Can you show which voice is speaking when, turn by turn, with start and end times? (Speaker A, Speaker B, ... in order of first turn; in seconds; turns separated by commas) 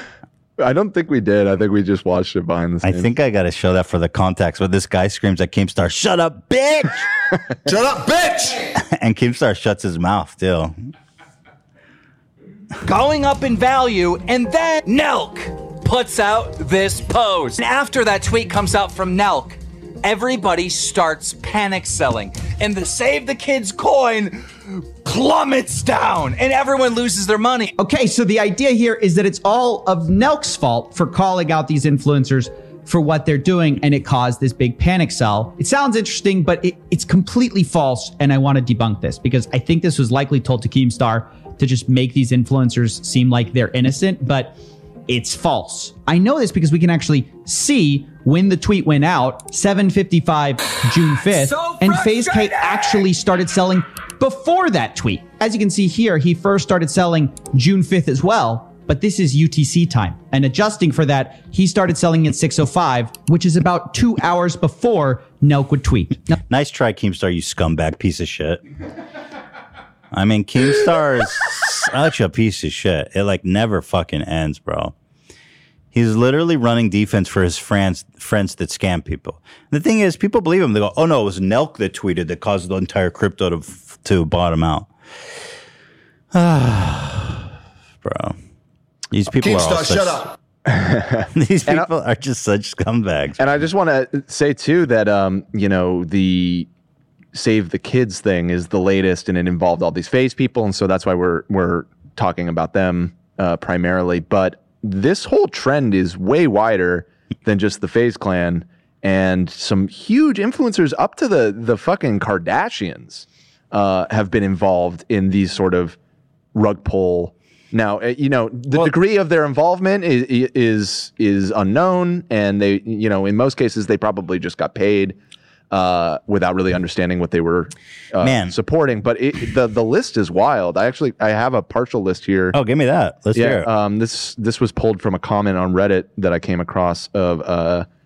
Speaker A: 0.6-3.1, Speaker B: 2.8-7.0, Speaker C: 7.7-8.6, Speaker B: 8.8-10.7, Speaker D: 12.8-27.7, Speaker E: 27.8-44.6, Speaker E: 45.1-66.3, Speaker D: 51.3-53.0, Speaker B: 66.5-68.6, Speaker B: 70.1-74.9, Speaker B: 75.9-84.9, Speaker B: 86.3-87.4, Speaker B: 88.0-88.3, Speaker B: 89.1-90.3, Speaker C: 89.3-90.3, Speaker A: 90.6-91.9, Speaker B: 91.3-93.4, Speaker A: 93.4-96.7, Speaker A: 97.3-116.0, Speaker A: 116.5-125.2, Speaker A: 125.7-132.6, Speaker B: 128.2-128.5, Speaker B: 132.5-133.7, Speaker A: 133.3-137.9